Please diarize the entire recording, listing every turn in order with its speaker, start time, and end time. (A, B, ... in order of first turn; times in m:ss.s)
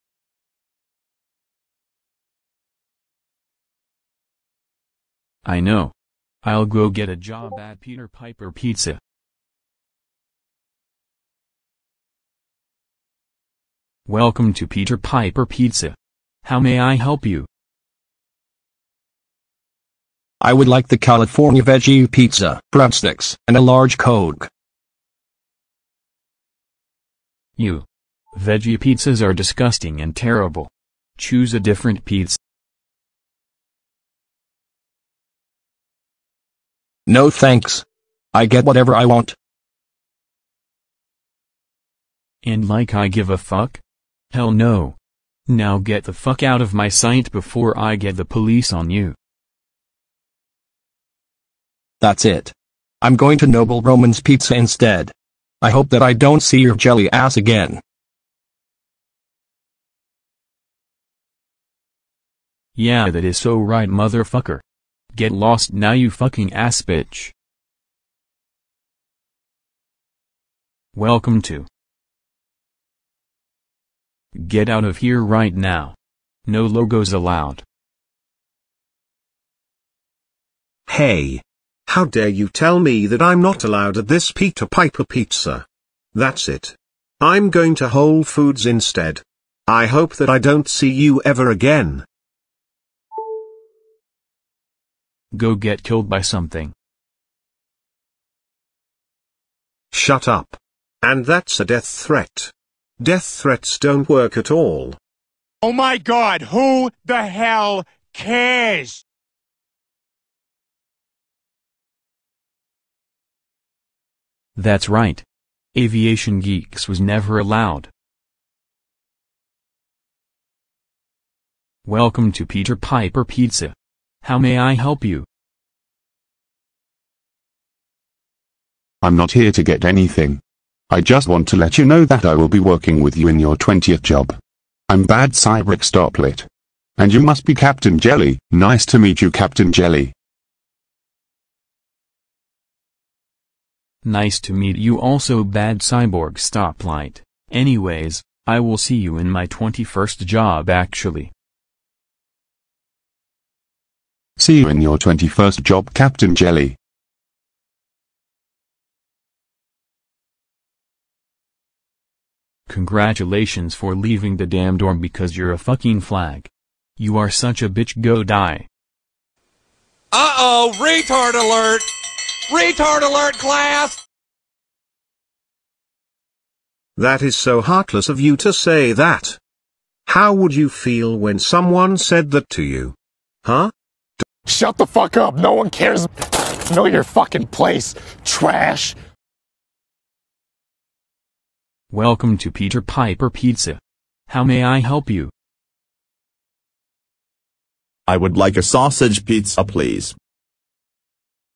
0:05.4-0:09.0 A
0:14.1-0:17.5 A
0:20.4-0:24.5 B
0:27.6-0:32.4 A
0:37.1-0:39.4 B
0:42.4-0:43.8 A
0:44.3-0:45.0 A
0:45.5-0:49.2 A
0:52.0-0:57.8 B
1:02.8-1:07.3 A
1:10.9-1:11.7 A
1:14.3-1:16.0 A
1:16.5-1:17.6 A
1:20.9-1:32.1 C
1:35.3-1:36.7 A
1:39.9-1:45.0 C
1:45.6-1:49.0 D
1:54.6-1:57.9 A
2:01.8-2:05.3 A
2:09.0-2:14.4 E
2:14.9-2:16.5 E
2:17.0-2:20.1 E
2:24.0-2:31.3 A
2:34.4-2:36.8 E
2:42.7-2:48.7 A
2:50.1-2:54.0 F
2:57.0-2:59.4 C
3:00.1-3:04.2 C
3:04.5-3:09.0 D
3:11.9-3:15.3 A
3:18.1-3:20.2 G